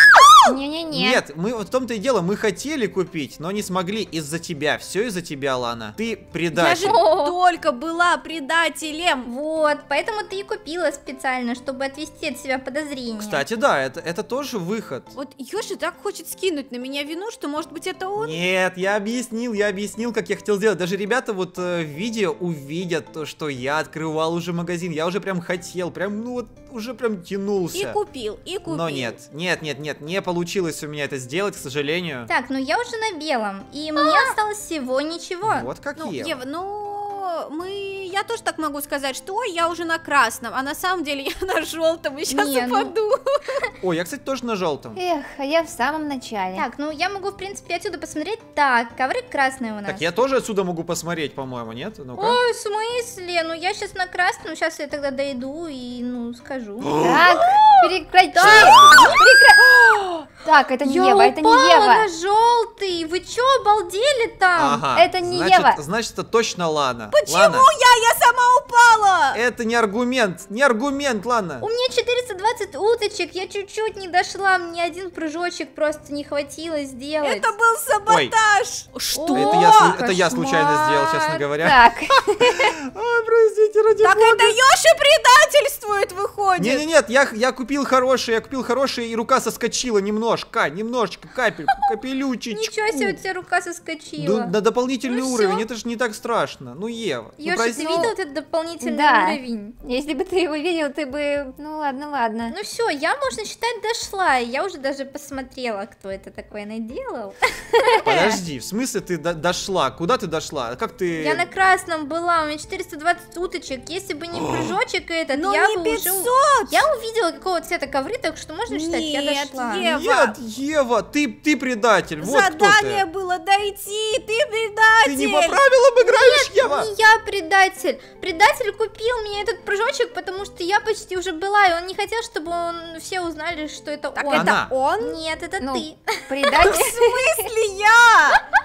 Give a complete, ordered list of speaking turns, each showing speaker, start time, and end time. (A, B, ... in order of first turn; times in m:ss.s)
0:00.4-0:01.2 A
0:00.9-0:07.0 B
0:06.5-0:09.3 C
0:06.8-0:07.4 D
0:09.2-0:13.4 D
0:13.2-0:15.1 B
0:15.1-0:18.4 C
0:18.2-0:28.0 B
0:27.7-0:29.2 C
0:28.7-0:32.3 B
0:32.3-0:35.7 D
0:34.0-0:34.3 C
0:35.4-0:36.4 B
0:36.0-0:43.6 C
0:42.3-0:42.9 D
0:43.8-0:45.0 B
0:44.9-0:46.6 A
0:46.5-0:50.0 D
0:49.8-0:52.4 B
0:52.2-0:59.2 D
0:56.8-0:57.3 B
0:57.0-0:59.6 A
0:58.4-0:59.2 B
0:59.8-1:00.2 B
1:00.4-1:02.1 A
1:00.8-1:04.8 D
1:04.5-1:07.7 B
1:04.9-1:05.8 A
1:07.1-1:09.4 C
1:09.3-1:11.6 B
1:11.6-1:17.5 D
1:17.2-1:20.0 C
1:18.1-1:18.3 B
1:19.1-1:21.4 D
1:19.3-1:24.6 B
1:21.6-1:22.7 A
1:24.0-1:26.8 C
1:26.6-1:33.2 B
1:32.5-1:34.5 D
1:34.2-1:38.1 B
1:35.0-1:35.6 D
1:37.4-1:39.7 D
1:37.8-1:38.1 A
1:38.8-1:42.5 A
1:42.5-1:48.4 D
1:48.0-1:51.5 B
1:51.2-1:59.9 D
1:54.3-1:54.7 B
1:55.3-1:56.8 C
1:58.7-2:00.3 C
1:59.9-2:03.0 B
2:02.2-2:05.6 C
2:05.0-2:06.9 B
2:06.0-2:16.8 D
2:14.1-2:15.2 C
2:14.3-2:14.7 B
2:15.6-2:17.4 A
2:16.6-2:18.4 C